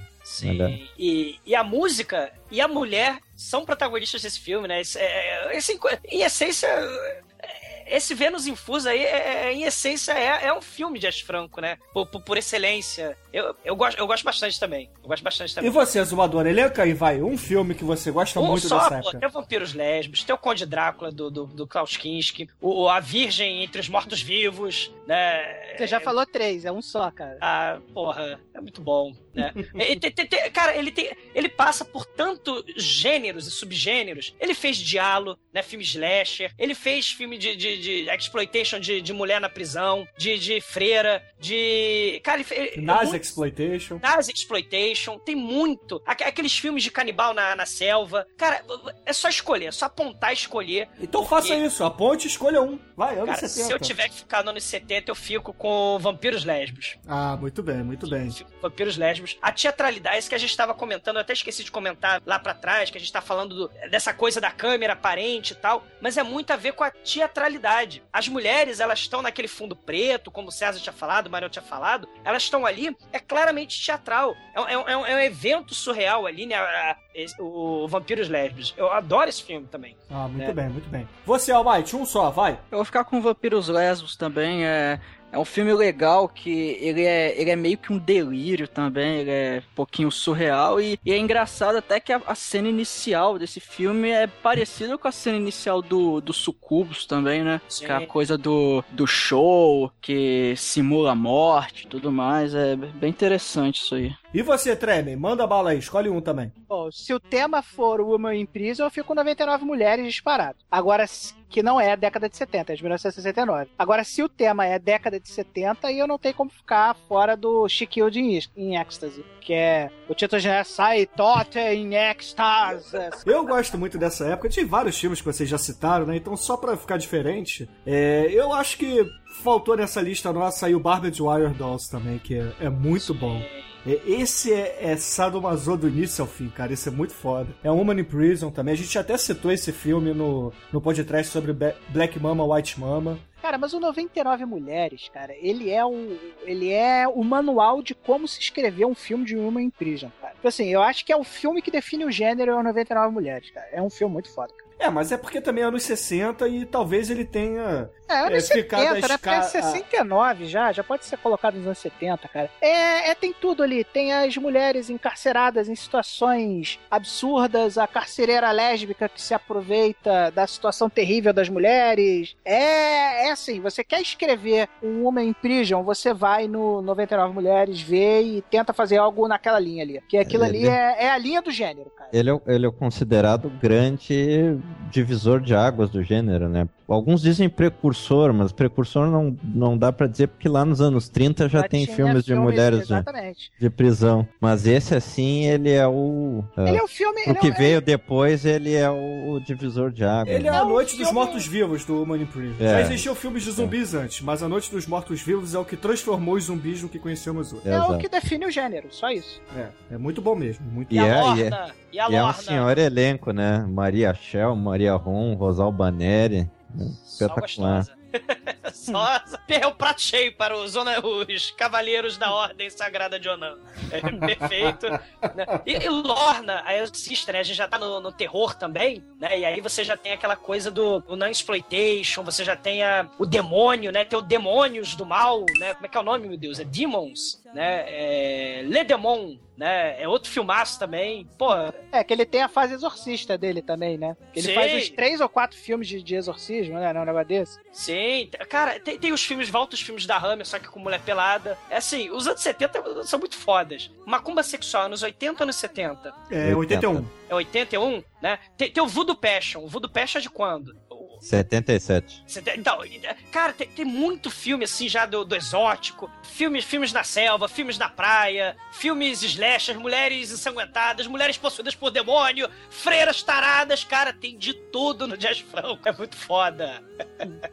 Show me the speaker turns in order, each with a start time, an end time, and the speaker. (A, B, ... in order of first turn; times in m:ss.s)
0:00.2-0:15.8 A
0:00.4-0:00.8 B
0:15.6-0:19.2 C
0:18.4-0:26.1 A
0:25.8-0:27.4 D
0:27.4-0:43.2 A
0:29.4-0:29.7 C
0:42.8-0:44.0 C
0:44.0-0:51.6 A
0:51.0-0:53.9 C
0:53.2-0:57.0 A
0:57.1-0:58.4 C
0:58.0-1:20.6 A
1:20.1-1:22.6 C
1:22.7-1:44.2 E
1:37.7-1:38.1 A
1:44.3-1:46.5 C
1:46.7-2:03.2 D
2:03.2-2:23.2 C
2:13.0-2:13.7 A
2:23.4-2:34.6 D
2:34.8-2:39.8 C
2:38.1-3:02.2 D
3:00.2-3:00.8 B
3:02.1-3:13.1 B
3:11.6-3:13.5 D
3:13.6-3:20.6 B
3:16.6-3:17.8 D
3:20.2-3:27.6 C
3:20.5-3:21.5 D
3:22.6-3:23.7 B
3:27.6-3:28.1 B
3:27.7-3:29.4 D
3:29.5-3:30.9 C
3:30.9-3:37.9 B
3:30.9-3:32.6 A
3:37.0-4:01.7 A
4:01.8-4:07.6 D
4:04.4-4:05.0 A
4:07.7-4:16.1 A
4:16.3-4:17.1 C
4:16.4-4:17.1 B
4:17.3-4:21.2 A
4:21.2-4:22.2 B
4:22.3-4:37.2 A